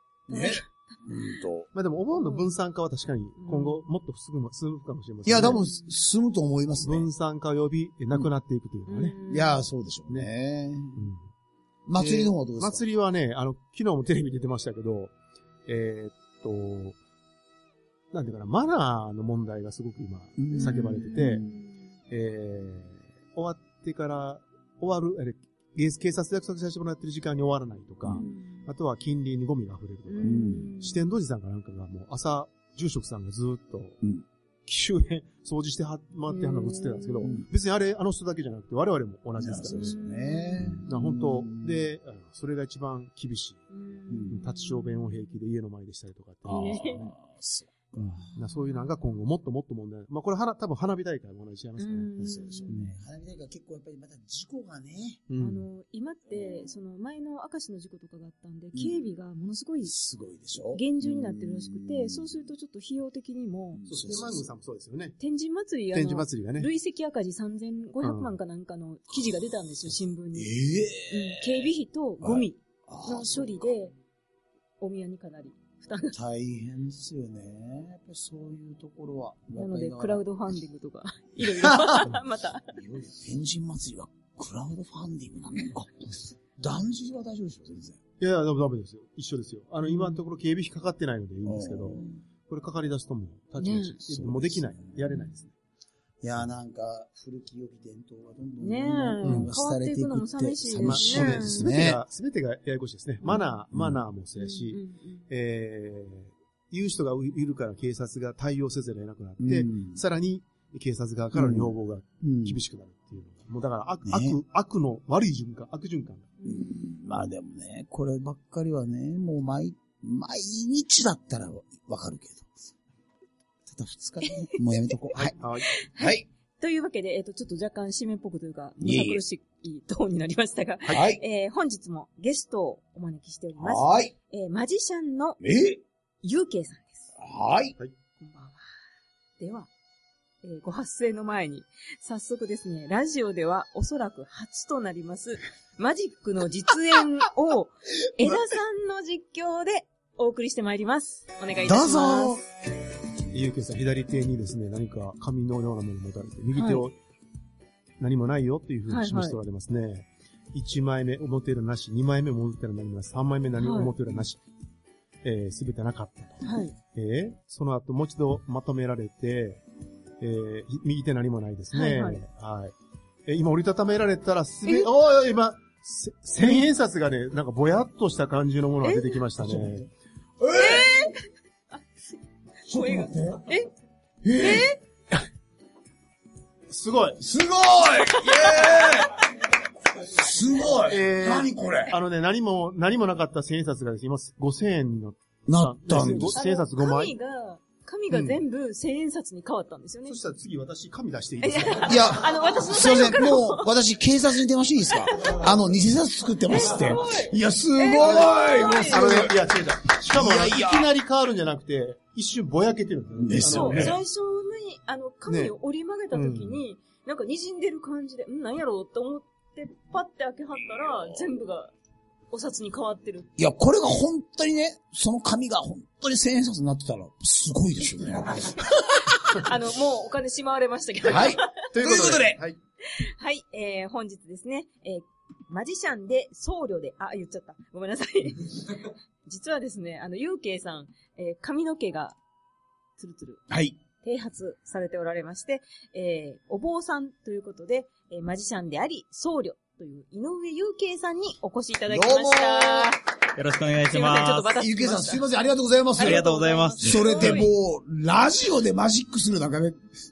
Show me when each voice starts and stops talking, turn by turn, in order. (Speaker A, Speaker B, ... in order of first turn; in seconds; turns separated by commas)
Speaker A: 0.3-1.7, Speaker B: 0.3-1.3, Speaker C: 1.7-5.6, Speaker B: 2.1-2.5, Speaker B: 3.4-3.8, Speaker A: 5.2-7.1, Speaker C: 6.8-9.2, Speaker B: 8.9-9.6, Speaker A: 9.3-11.1, Speaker C: 11.0-11.3, Speaker A: 11.9-12.8, Speaker C: 12.0-15.1, Speaker C: 15.7-17.0, Speaker C: 18.1-21.4, Speaker A: 20.4-21.3, Speaker B: 20.5-21.9, Speaker C: 22.1-34.0, Speaker B: 28.1-28.7, Speaker B: 30.1-31.0, Speaker A: 30.2-30.7, Speaker C: 34.7-40.0, Speaker B: 36.3-37.3, Speaker A: 39.4-41.9, Speaker B: 39.7-41.0, Speaker C: 40.6-43.7, Speaker B: 43.7-45.3, Speaker A: 44.1-44.4, Speaker C: 44.3-47.1, Speaker B: 46.5-47.0, Speaker A: 46.5-48.2, Speaker C: 48.0-52.1, Speaker B: 48.2-49.1, Speaker B: 51.8-52.8, Speaker A: 52.2-55.2, Speaker C: 55.3-55.7, Speaker B: 55.4-60.0, Speaker A: 56.3-56.7, Speaker A: 58.7-59.0, Speaker A: 59.9-62.3, Speaker B: 60.7-63.9, Speaker A: 63.8-64.5, Speaker C: 63.9-65.2, Speaker B: 65.2-70.5, Speaker C: 65.9-66.7, Speaker C: 68.0-68.3, Speaker A: 69.1-71.7, Speaker B: 71.1-73.9, Speaker A: 72.2-73.7, Speaker B: 74.8-76.2, Speaker A: 76.1-80.2, Speaker B: 79.5-82.7, Speaker A: 81.4-82.2, Speaker A: 82.7-88.0, Speaker C: 88.2-95.5, Speaker B: 89.8-90.2, Speaker A: 91.4-92.2, Speaker B: 93.6-94.0, Speaker A: 94.0-95.0, Speaker A: 96.2-102.0, Speaker B: 98.6-101.6, Speaker C: 100.7-116.4, Speaker A: 103.7-104.0, Speaker B: 104.4-105.2, Speaker A: 109.4-110.0, Speaker A: 111.3-112.6, Speaker A: 114.0-114.4, Speaker A: 116.5-122.5, Speaker A: 123.7-125.4, Speaker B: 124.3-124.6, Speaker C: 125.1-125.7, Speaker B: 125.7-135.4, Speaker A: 125.9-126.3, Speaker A: 128.8-129.2, Speaker A: 130.9-131.2, Speaker A: 133.6-134.1, Speaker A: 135.4-135.8, Speaker B: 136.2-137.1, Speaker A: 137.2-137.8, Speaker B: 138.2-138.6, Speaker B: 139.4-139.7, Speaker B: 140.4-152.3, Speaker A: 151.6-152.5, Speaker C: 153.3-156.9, Speaker B: 156.5-156.8, Speaker C: 158.0-164.4, Speaker B: 158.9-159.4, Speaker B: 163.6-163.9, Speaker C: 165.2-169.6, Speaker B: 166.4-166.7, Speaker C: 170.2-172.7, Speaker B: 171.7-172.2, Speaker C: 173.3-179.9, Speaker B: 174.7-174.9, Speaker B: 178.8-179.2, Speaker A: 179.4-179.9, Speaker A: 180.4-181.1, Speaker B: 180.5-181.8, Speaker B: 182.7-183.7, Speaker A: 182.7-183.5, Speaker A: 184.2-184.7, Speaker B: 184.4-184.8, Speaker C: 186.7-187.2, Speaker A: 187.2-189.3, Speaker B: 188.1-189.1, Speaker A: 190.0-191.9, Speaker C: 190.8-197.1, Speaker A: 195.5-196.4, Speaker B: 195.9-200.2, Speaker C: 198.1-198.4, Speaker C: 200.1-202.2, Speaker B: 201.4-203.7, Speaker A: 201.8-209.4, Speaker B: 206.4-209.3, Speaker C: 207.9-208.3, Speaker C: 208.9-214.0, Speaker A: 210.0-210.9, Speaker A: 213.2-214.0, Speaker B: 213.4-221.7, Speaker C: 215.3-215.6, Speaker C: 216.1-216.6, Speaker B: 222.3-223.3, Speaker A: 223.4-229.1, Speaker B: 229.2-231.7, Speaker A: 231.1-232.4, Speaker C: 231.7-232.6, Speaker B: 232.9-242.2, Speaker B: 243.0-243.4, Speaker A: 243.5-243.8, Speaker B: 244.0-253.0, Speaker A: 251.9-252.9, Speaker D: 253.3-254.5, Speaker B: 253.9-255.3, Speaker A: 254.6-256.3, Speaker B: 256.0-257.5, Speaker D: 256.0-257.4, Speaker A: 256.8-259.9